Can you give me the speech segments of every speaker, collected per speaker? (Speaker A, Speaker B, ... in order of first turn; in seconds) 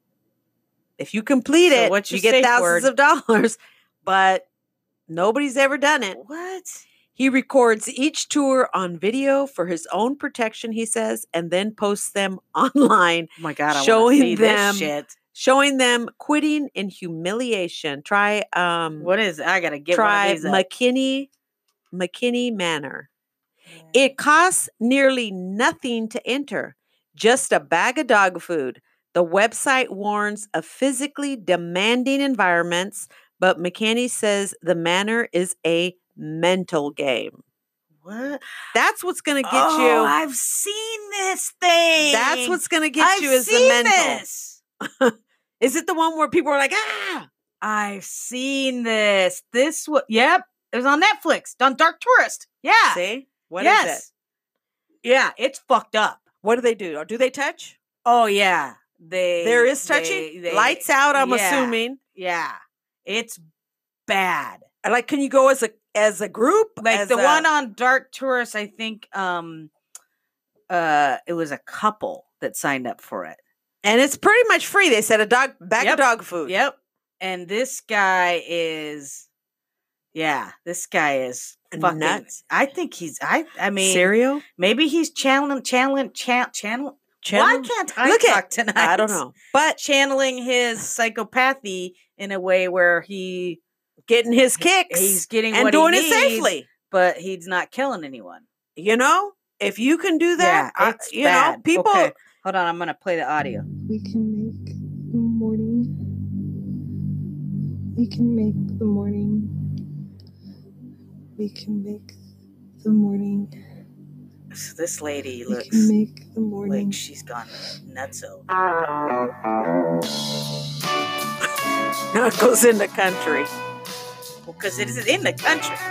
Speaker A: 1.0-4.5, 5.1-6.2, 7.2-19.1, 19.9-21.3, 21.9-23.1, 23.9-37.4, 38.7-40.1, 42.0-44.2, 44.8-47.3, 52.9-54.0, 56.4-57.8, 59.4-62.0, 64.8-67.5, 73.8-76.5, 81.7-82.3, 83.8-84.4, 87.2-89.8, 94.1-96.7, 98.8-102.1, 122.1-123.5
Speaker B: 1.6-2.9, 6.1-6.8, 13.4-15.1, 19.0-20.6, 23.7-24.1, 38.0-38.4, 39.4-44.6, 47.6-53.0, 53.6-54.1, 55.0-56.2, 58.0-63.4, 64.1-64.6, 66.8-69.7, 70.7-73.4, 75.8-79.3, 80.1-89.2, 89.8-93.6, 94.9-98.4, 100.4-103.7, 114.5-115.9, 116.7-118.5, 124.4-125.8
Speaker C: 103.8-106.6, 107.9-109.8, 111.3-112.2, 112.8-113.6, 115.5-117.0